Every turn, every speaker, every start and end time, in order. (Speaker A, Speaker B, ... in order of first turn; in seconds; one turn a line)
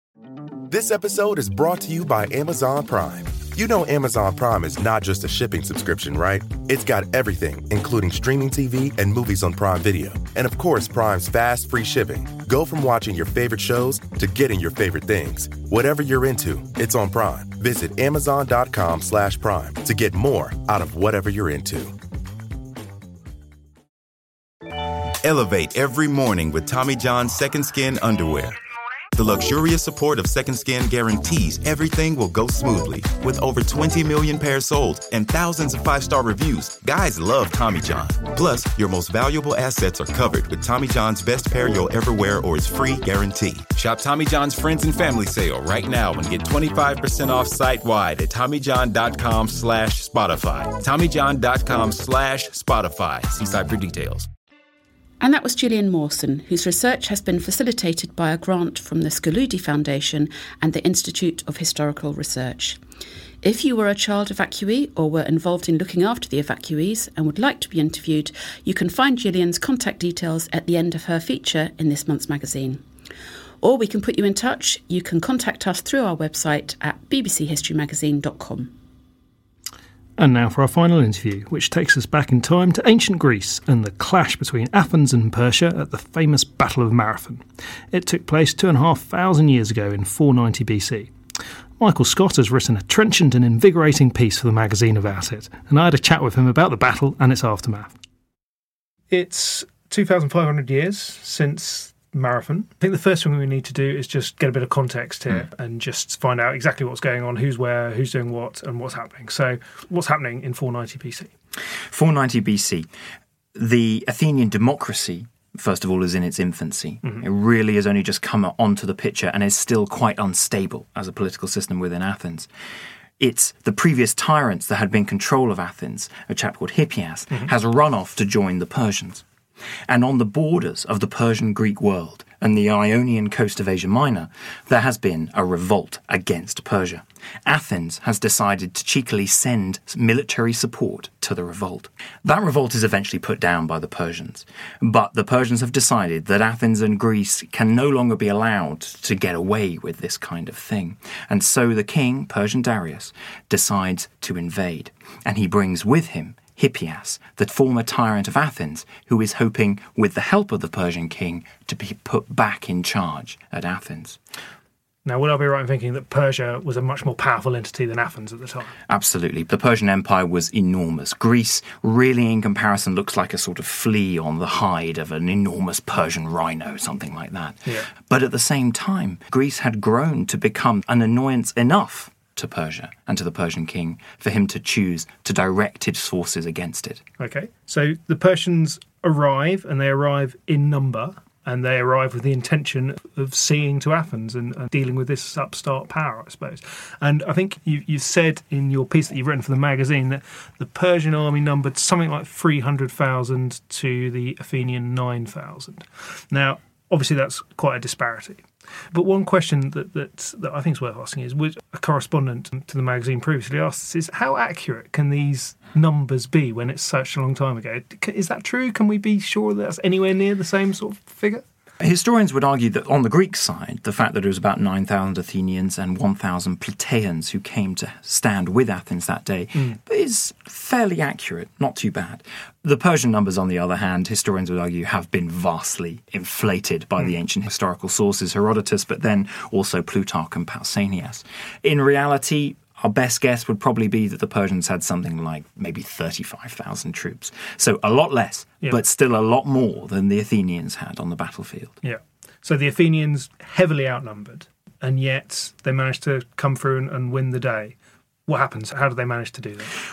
Speaker A: 0.7-22.0
Speaker B: 25.2-28.6
Speaker B: 29.1-43.7
Speaker C: 43.7-54.3
Speaker D: 55.2-62.8
Speaker D: 63.4-72.8
Speaker D: 73.6-78.7
Speaker E: 80.2-91.1
Speaker E: 91.8-97.9
Speaker F: 99.1-111.3
Speaker G: 111.9-112.9
Speaker G: 113.5-122.5
Speaker G: 123.2-129.2
Speaker G: 129.9-164.2
Speaker F: 165.1-168.7
Speaker G: 168.9-187.0
Speaker F: 187.2-221.4
Speaker G: 221.8-251.7
Speaker F: 251.8-257.8
Speaker F: 258.3-259.7